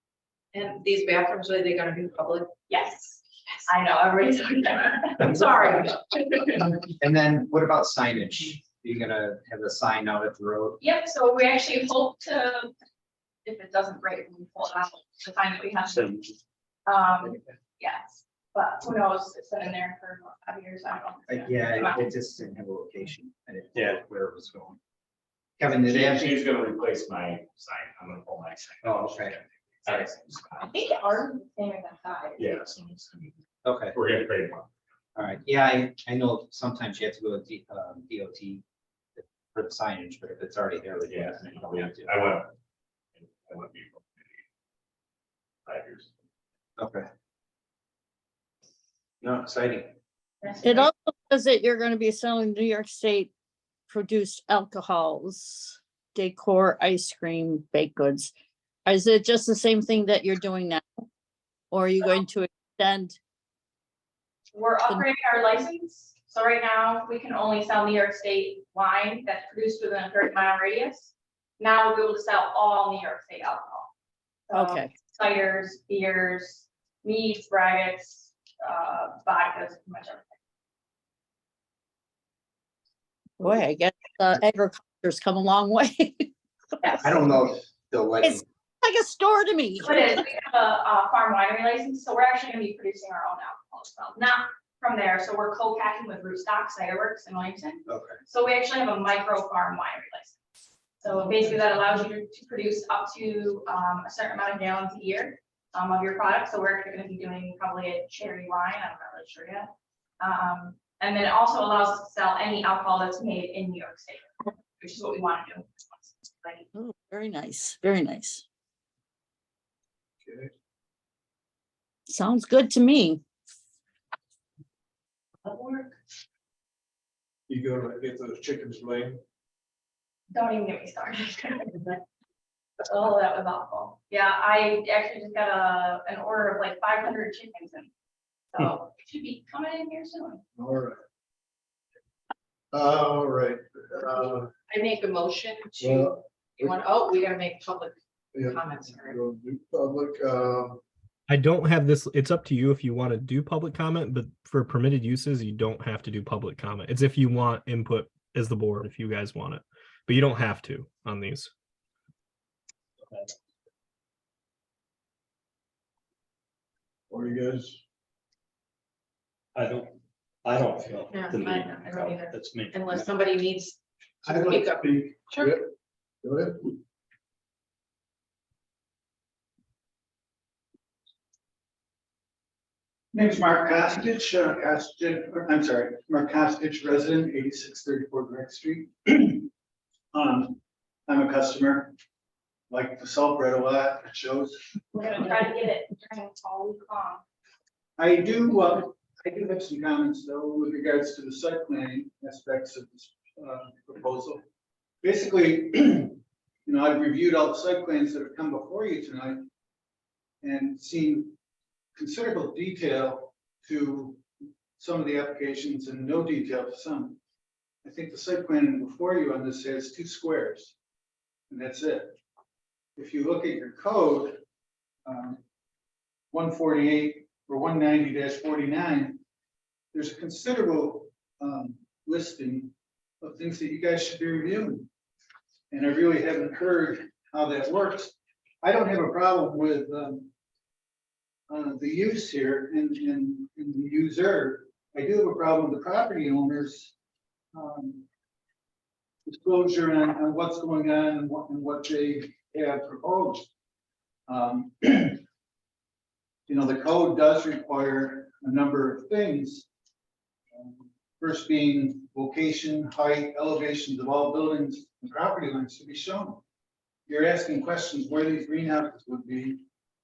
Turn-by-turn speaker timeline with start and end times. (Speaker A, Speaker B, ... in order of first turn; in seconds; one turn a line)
Speaker A: 0.5-2.5
Speaker B: 2.7-6.0
Speaker C: 7.0-10.8
Speaker B: 10.8-12.7
Speaker B: 13.4-16.2
Speaker B: 16.9-22.1
Speaker C: 21.3-24.8
Speaker C: 25.6-26.4
Speaker D: 25.8-31.1
Speaker C: 28.8-30.1
Speaker B: 30.7-32.4
Speaker D: 32.4-33.4
Speaker C: 33.6-34.0
Speaker D: 33.9-34.7
Speaker C: 35.2-38.6
Speaker C: 39.2-42.2
Speaker D: 41.1-42.5
Speaker D: 43.2-44.4
Speaker D: 45.7-46.1
Speaker C: 46.8-47.1
Speaker C: 49.2-49.9
Speaker B: 50.4-50.9
Speaker E: 50.6-53.3
Speaker E: 53.9-58.3
Speaker E: 58.9-60.9
Speaker E: 61.7-63.2
Speaker B: 64.5-73.9
Speaker B: 74.5-80.4
Speaker E: 74.5-74.9
Speaker E: 83.4-86.3
Speaker C: 87.0-88.4
Speaker E: 88.2-90.2
Speaker B: 89.8-100.4
Speaker C: 97.9-98.2
Speaker B: 101.0-116.7
Speaker E: 116.8-118.4
Speaker F: 120.2-120.5
Speaker E: 122.1-123.2
Speaker F: 127.5-129.2
Speaker B: 130.3-132.0
Speaker B: 132.8-137.9
Speaker B: 138.5-140.4
Speaker F: 140.6-141.0
Speaker F: 142.7-144.5
Speaker A: 144.7-147.9
Speaker F: 145.8-146.8
Speaker F: 148.3-150.8
Speaker A: 148.5-149.2
Speaker G: 151.3-161.5
Speaker F: 167.1-167.8
Speaker H: 169.6-169.9
Speaker H: 170.5-172.7
Speaker A: 171.1-175.6
Speaker I: 174.3-174.7
Speaker F: 174.8-175.7
Speaker F: 176.2-176.7
Speaker I: 183.1-189.5
Speaker I: 190.1-191.9
Speaker I: 192.7-194.6
Speaker B: 194.9-197.2
Speaker I: 198.0-204.4
Speaker I: 205.0-209.5
Speaker I: 210.4-211.3
Speaker I: 212.0-214.2
Speaker I: 214.8-217.2
Speaker I: 217.8-220.8
Speaker I: 221.5-222.2
Speaker I: 223.0-224.4
Speaker I: 225.1-225.4
Speaker I: 226.3-229.2
Speaker I: 229.9-234.9
Speaker I: 235.7-240.3
Speaker I: 241.5-246.9
Speaker I: 247.5-248.1
Speaker I: 249.3-253.5
Speaker I: 254.3-255.2
Speaker I: 256.5-259.7
Speaker I: 260.5-266.4
Speaker I: 267.1-269.6